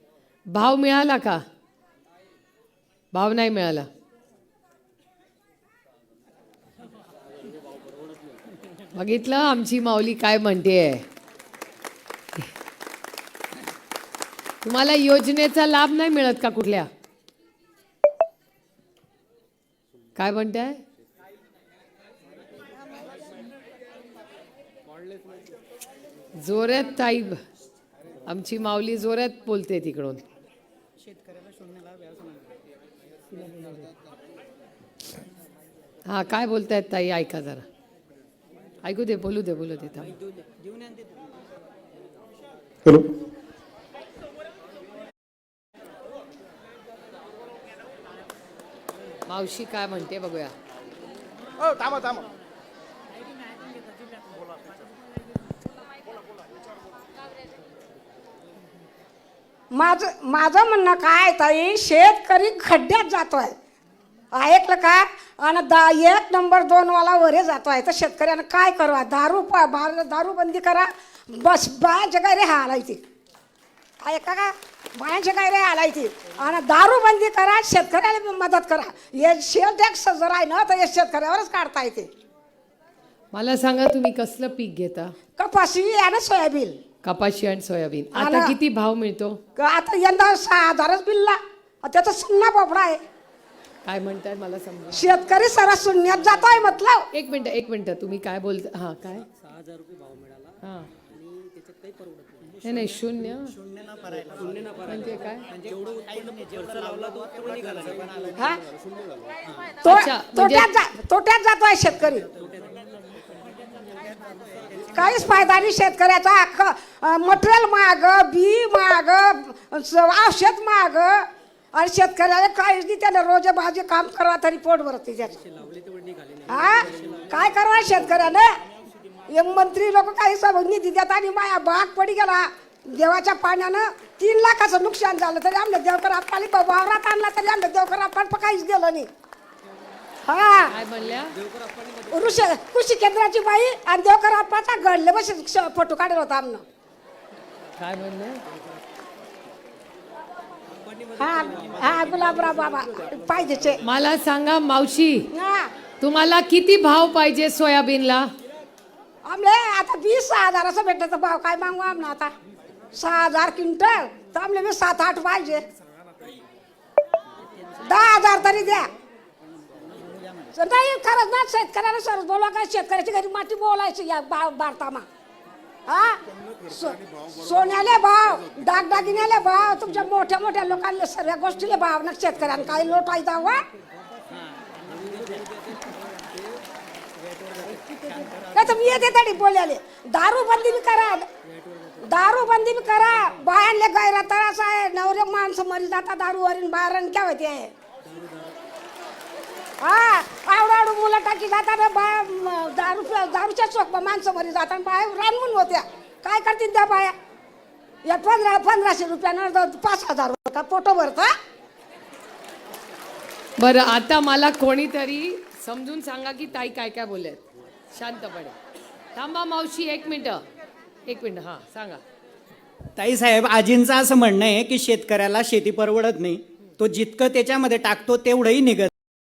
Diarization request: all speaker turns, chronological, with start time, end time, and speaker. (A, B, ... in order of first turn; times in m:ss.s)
0:00.5-0:01.4 A
0:03.1-0:03.9 A
0:08.9-0:11.0 A
0:14.6-0:16.9 A
0:20.2-0:20.8 A
0:26.4-0:27.4 A
0:28.2-0:30.2 A
0:31.2-0:32.2 B
0:33.4-0:33.7 A
0:36.1-0:37.7 A
0:38.8-0:40.1 A
0:40.4-0:40.8 B
0:49.3-0:50.5 A
0:59.7-1:03.6 C
1:04.3-1:13.0 C
1:14.0-1:22.1 C
1:23.3-1:25.1 A
1:25.4-1:26.8 C
1:27.0-1:29.4 A
1:28.1-1:28.6 C
1:29.6-1:33.0 C
1:33.8-1:35.0 A
1:34.9-1:37.1 C
1:37.1-1:39.3 A
1:40.6-1:40.9 A
1:42.6-1:43.6 A
1:43.6-1:44.8 B
1:44.8-1:45.5 A
1:45.5-1:48.4 B
1:48.4-1:48.6 C
1:49.8-1:52.3 C
1:49.8-1:50.7 A
1:54.9-2:05.4 C
2:06.5-2:08.5 C
2:09.3-2:19.1 C
2:20.2-2:20.7 C
2:20.7-2:21.3 A
2:22.1-2:26.6 C
2:27.8-2:28.4 A
2:31.2-2:33.8 C
2:33.8-2:35.3 A
2:35.3-2:35.7 C
2:36.0-2:38.3 A
2:39.2-2:42.3 C
2:43.0-2:45.6 C
2:47.8-2:48.9 C
2:50.5-2:55.1 C
2:55.9-3:03.6 C
3:05.0-3:05.8 B
3:07.6-3:08.0 B
3:08.5-3:11.3 C
3:12.0-3:17.7 C
3:19.8-3:27.1 C
3:28.1-3:31.3 C
3:33.6-3:38.6 A
3:39.2-3:40.4 A
3:41.1-3:42.0 A
3:43.0-3:48.9 B